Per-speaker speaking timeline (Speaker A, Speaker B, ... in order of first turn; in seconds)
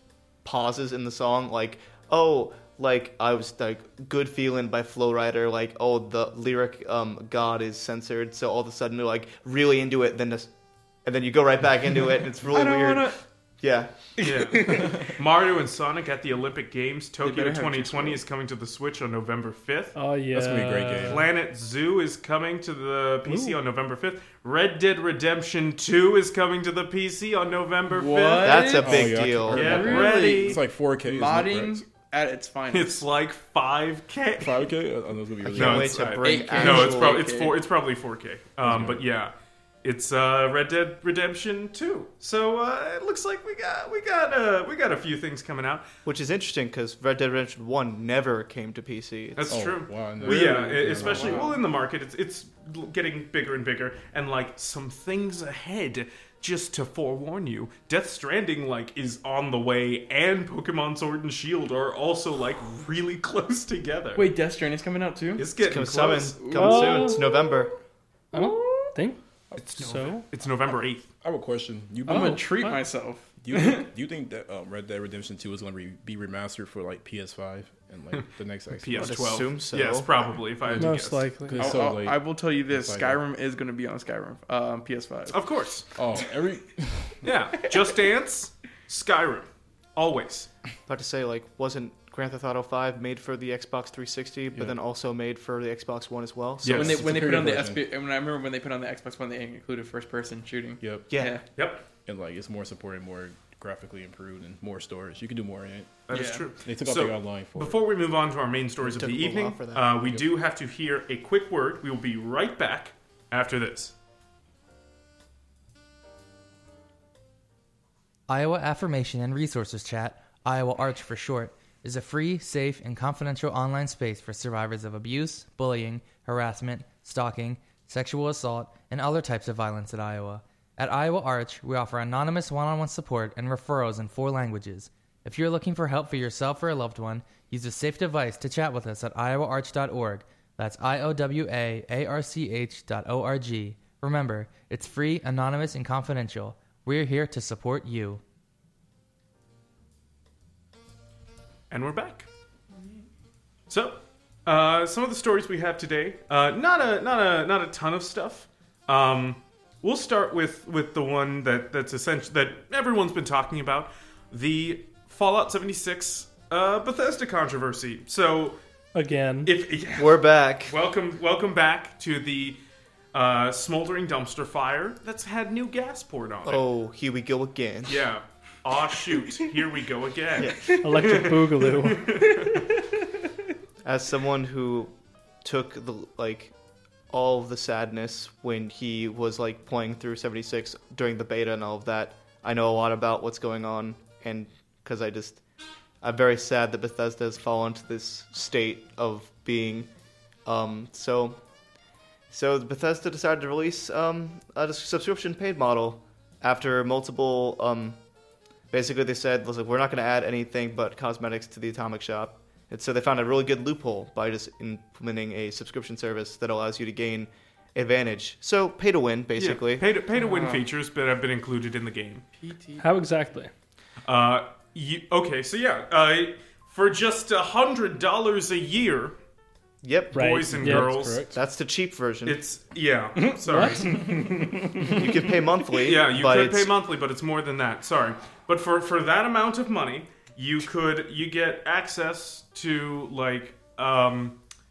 Speaker A: 0.4-10.5, 11.0-14.3, 28.4-30.0, 35.4-37.2, 46.0-49.6, 65.6-67.7, 79.0-80.1, 90.9-97.0, 101.1-101.4, 108.8-109.9, 170.0-170.8, 176.4-178.1, 180.4-180.7, 183.8-184.9, 185.4-186.5, 187.1-195.4, 196.0-199.9, 200.4-201.4, 202.3-208.0, 208.7-219.8, 229.8-230.2, 231.3-232.4, 234.9-236.7
Speaker B: 12.5-13.2, 14.3-15.1, 17.2-18.2, 27.9-33.0, 36.2-37.6, 51.0-51.5, 64.2-65.5, 66.4-67.3, 72.1-73.8, 81.5-85.4, 96.8-101.4, 106.1-106.5, 182.2-182.8, 220.1-220.7, 222.4-222.9, 233.6-234.9
Speaker C: 14.2-19.9, 21.1-28.8, 29.5-30.6, 32.7-34.6, 35.5-39.3, 39.8-45.9, 49.3-64.3, 65.4-66.4, 69.5-71.1, 78.8-81.2, 85.3-85.9, 87.2-90.5, 96.6-97.0, 101.5-101.8, 106.1-113.9, 151.7-152.3, 153.7-168.6, 169.4-172.6, 173.1-176.6, 177.9-182.6, 219.4-222.2, 224.1-229.1, 230.1-231.2, 232.2-234.3, 235.8-244.4
Speaker D: 19.9-21.2, 23.3-23.6, 66.5-67.2, 68.3-69.2, 69.8-70.2, 72.1-72.8, 80.8-81.8, 168.9-169.5, 180.8-182.1, 222.8-223.5, 230.1-230.9, 233.4-234.2
Speaker E: 20.3-21.3, 28.8-31.8, 34.4-36.1, 38.6-39.0, 49.5-51.5, 71.2-72.4, 73.4-79.2, 80.6-83.2, 86.0-87.3, 96.7-97.8, 100.8-101.1, 102.0-106.0, 106.6-107.8, 230.5-231.4
Speaker F: 118.3-148.2